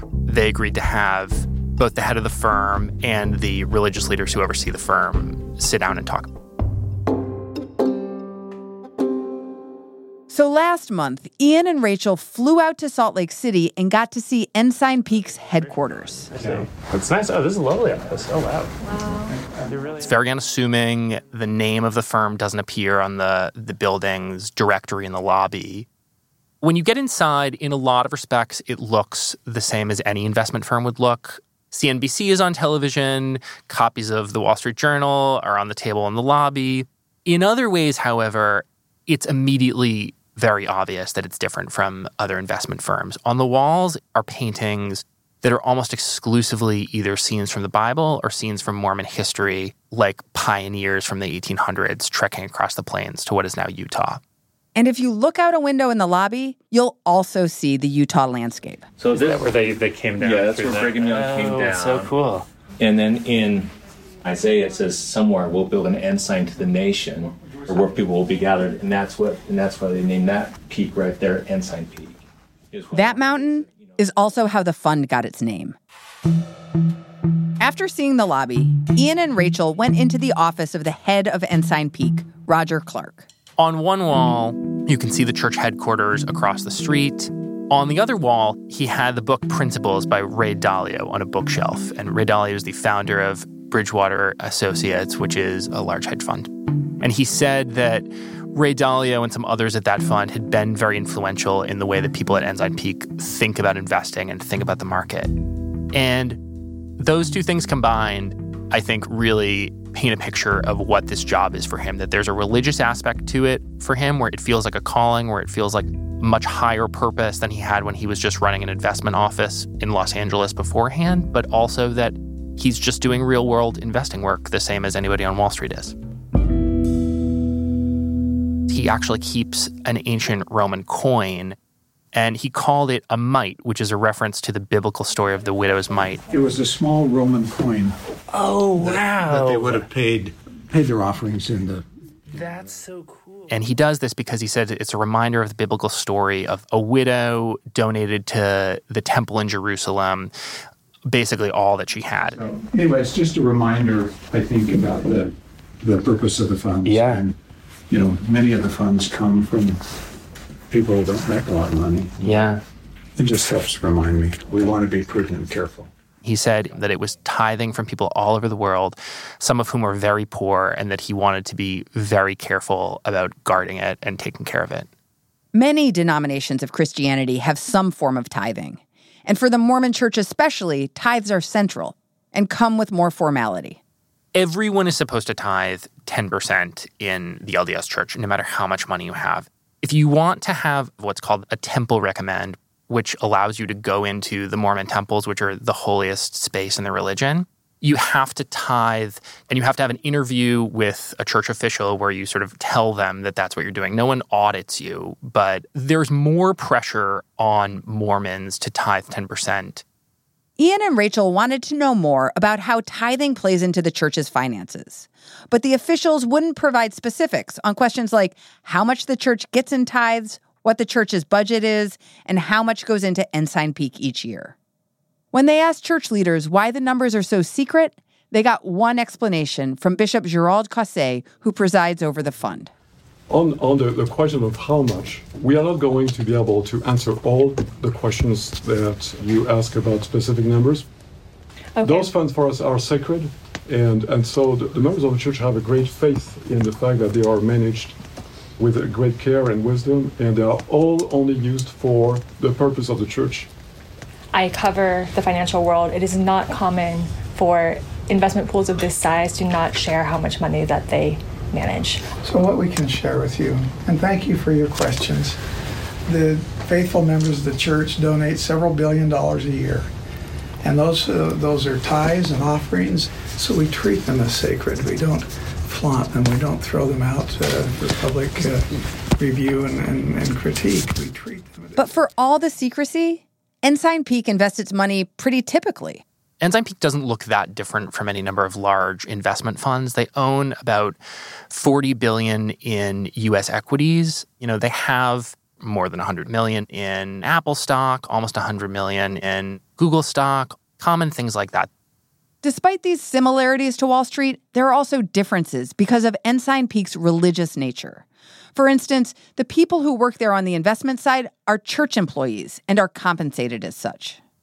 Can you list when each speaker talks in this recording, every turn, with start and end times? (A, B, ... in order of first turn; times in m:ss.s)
0:00.2-0:06.3 A
0:10.3-0:16.3 B
0:16.5-0:18.6 C
0:20.0-0:25.9 A
0:26.6-0:54.2 A
0:54.7-0:58.8 B
0:59.0-0:59.5 D
0:59.6-1:00.1 C
1:00.2-1:02.2 D
1:02.8-1:03.7 D
1:04.2-1:12.2 D
1:12.7-1:14.1 D
1:12.9-1:15.8 B
1:17.6-1:23.2 B
1:23.6-1:36.5 A
1:37.0-1:45.3 A
1:45.9-1:46.4 A
1:47.0-2:05.9 A
2:08.7-2:11.6 A
2:12.1-2:16.2 A
2:16.3-2:18.0 E
2:18.8-2:21.8 E
2:18.9-2:19.6 C
2:22.6-2:23.3 C
2:23.5-2:30.3 A
2:31.1-2:32.4 A
2:32.3-2:37.3 E
2:37.9-2:39.8 E
2:40.7-2:42.4 E
2:42.2-2:42.5 A
2:43.2-2:45.9 E
2:46.2-2:54.9 A
2:55.5-3:03.8 B
3:04.3-3:29.8 A
3:30.6-3:44.5 B
3:45.3-3:52.7 B
3:53.3-4:00.8 F
4:01.8-4:02.1 G
4:01.9-4:08.0 F
4:08.6-4:13.5 F
4:14.3-4:22.0 G
4:22.2-4:25.4 H
4:26.1-4:29.9 H
4:30.6-4:41.8 H
4:41.8-4:46.0 B
4:46.4-4:51.0 A
4:51.5-5:01.7 A
5:02.4-5:14.2 B